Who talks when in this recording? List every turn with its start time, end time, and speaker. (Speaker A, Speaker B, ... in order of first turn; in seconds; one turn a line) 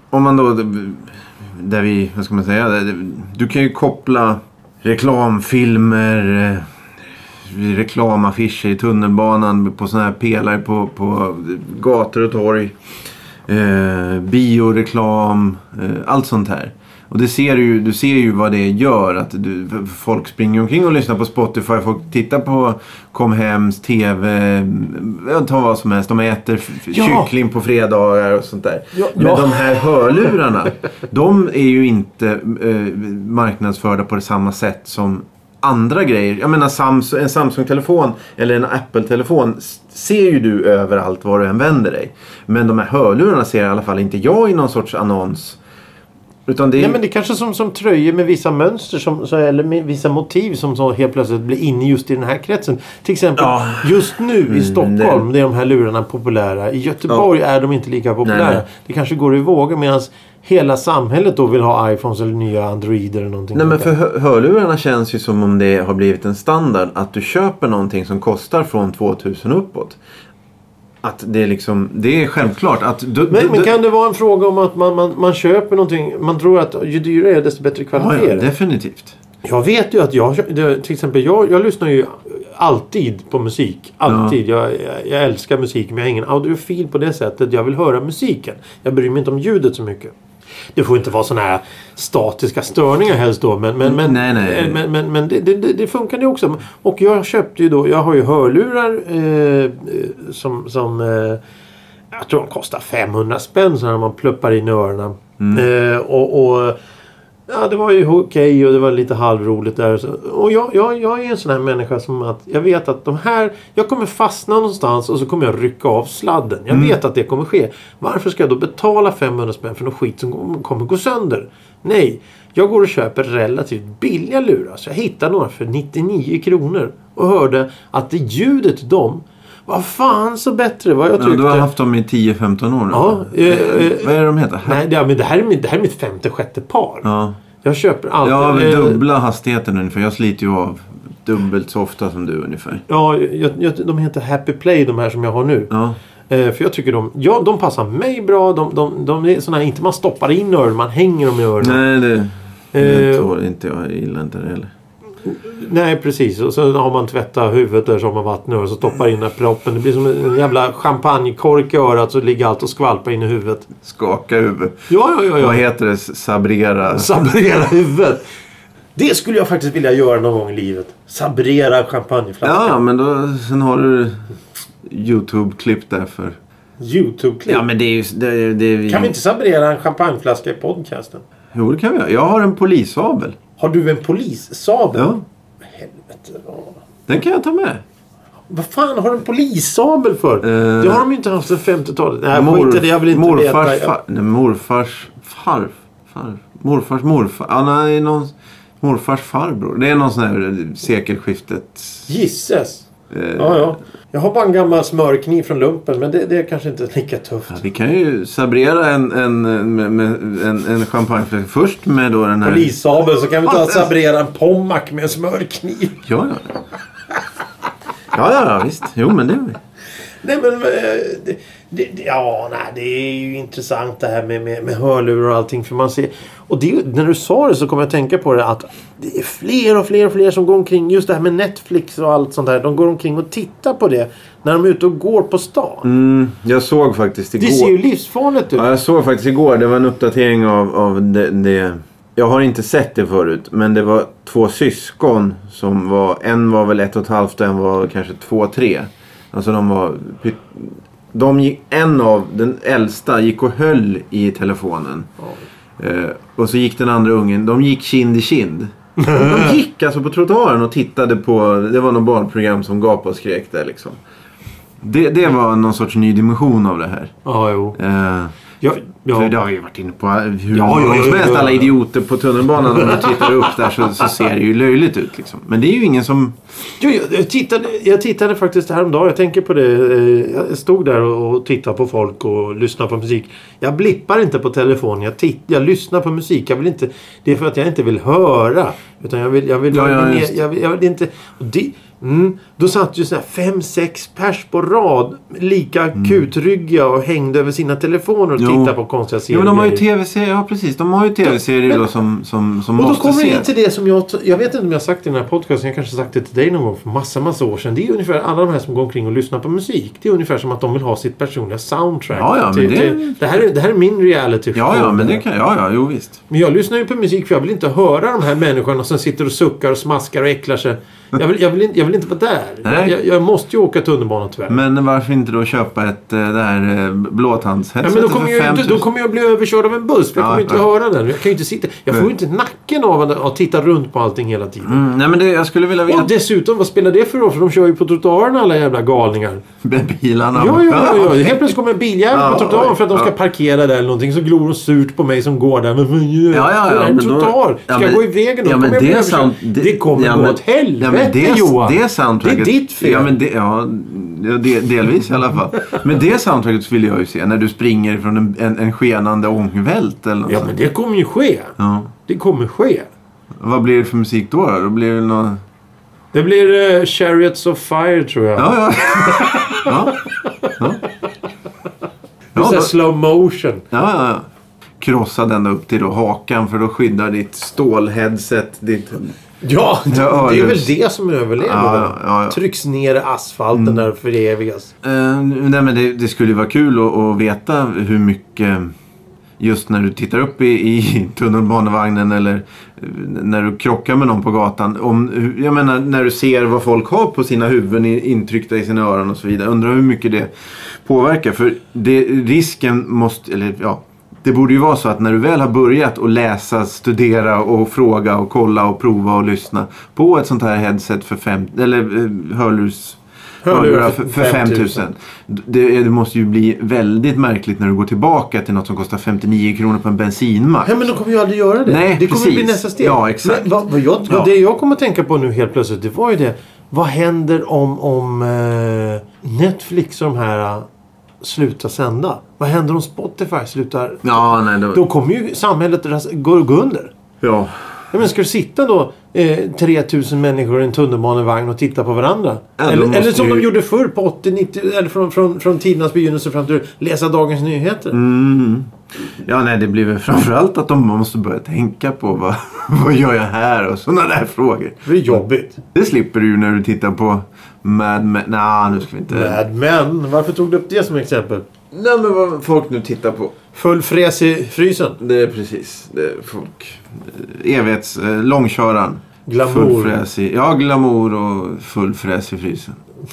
Speaker A: 0.1-6.7
Speaker A: 7.4-12.7
Speaker A: 13.4-45.6
Speaker B: 26.9-27.3
Speaker B: 28.9-29.8
Speaker A: 46.5-47.0
Speaker B: 46.8-63.9
Speaker A: 53.4-55.2
Speaker A: 58.2-58.6
Speaker A: 63.5-70.0
Speaker A: 71.0-73.7
Speaker B: 73.3-78.5
Speaker A: 77.9-79.2
Speaker B: 79.4-90.1
Speaker A: 84.1-84.3
Speaker B: 90.7-101.4
Speaker A: 93.8-94.8
Speaker B: 102.1-106.8
Speaker A: 105.4-105.6
Speaker B: 107.5-131.7
Speaker A: 116.7-117.0
Speaker A: 131.2-134.8
Speaker B: 132.9-137.1
Speaker A: 137.0-137.4
Speaker B: 137.6-139.0
Speaker A: 138.2-142.8
Speaker B: 142.9-145.7
Speaker A: 145.7-146.0
Speaker B: 146.3-151.8
Speaker A: 151.6-154.7
Speaker B: 152.7-153.3
Speaker B: 155.2-163.7
Speaker A: 163.8-164.8
Speaker B: 164.9-165.6
Speaker A: 165.4-167.3
Speaker B: 166.8-168.2
Speaker B: 168.9-172.8
Speaker A: 172.4-174.2
Speaker A: 174.8-176.4
Speaker B: 176.8-177.7
Speaker A: 177.5-179.1
Speaker B: 178.9-181.2
Speaker A: 181.5-183.4
Speaker B: 183.6-186.8
Speaker A: 184.9-185.2
Speaker A: 187.1-187.8
Speaker B: 188.5-193.9
Speaker A: 190.4-191.0
Speaker A: 192.3-202.1
Speaker B: 202.1-207.6
Speaker A: 203.1-203.7
Speaker A: 207.5-212.7
Speaker B: 212.4-216.0
Speaker A: 213.4-213.8
Speaker A: 216.0-216.4
Speaker A: 218.1-219.6
Speaker B: 220.2-235.9
Speaker A: 235.8-237.8
Speaker B: 237.4-238.7
Speaker A: 238.5-255.1
Speaker A: 255.8-264.0
Speaker B: 259.0-259.5
Speaker A: 264.8-267.1
Speaker B: 267.2-267.8
Speaker A: 267.8-268.3
Speaker B: 268.6-269.3
Speaker A: 269.1-276.4
Speaker B: 270.5-271.7
Speaker B: 272.7-274.0
Speaker B: 276.8-299.8
Speaker A: 289.7-290.4
Speaker A: 298.4-298.7
Speaker A: 299.3-303.4
Speaker B: 302.8-315.2
Speaker A: 312.1-313.2
Speaker A: 314.5-316.2
Speaker B: 316.3-324.6
Speaker A: 322.6-322.9
Speaker A: 324.5-328.8
Speaker B: 327.8-334.8
Speaker A: 330.1-330.6
Speaker A: 334.6-336.1
Speaker B: 335.9-339.4
Speaker A: 339.6-341.5
Speaker B: 340.3-353.1
Speaker A: 342.1-343.1
Speaker A: 346.3-360.6
Speaker B: 360.3-362.9
Speaker A: 361.6-361.9
Speaker A: 363.4-365.4
Speaker B: 366.1-370.6
Speaker A: 368.4-370.0
Speaker A: 370.6-370.8
Speaker B: 372.3-373.6
Speaker A: 372.3-372.7
Speaker A: 373.7-374.3
Speaker A: 374.8-379.1
Speaker B: 379.4-384.7
Speaker A: 379.9-380.7
Speaker A: 381.4-382.4
Speaker A: 383.5-383.8
Speaker A: 384.8-388.7
Speaker A: 389.4-420.9
Speaker B: 413.4-414.8
Speaker B: 420.6-430.7
Speaker A: 421.6-423.5
Speaker B: 431.2-436.9
Speaker A: 434.0-434.8
Speaker A: 437.2-437.6
Speaker B: 437.9-448.0
Speaker A: 442.6-443.5
Speaker A: 447.9-455.2
Speaker B: 454.8-455.6
Speaker A: 455.7-459.4
Speaker B: 459.1-461.5
Speaker A: 461.7-463.3
Speaker B: 463.5-465.0
Speaker A: 465.0-472.8
Speaker B: 469.3-470.0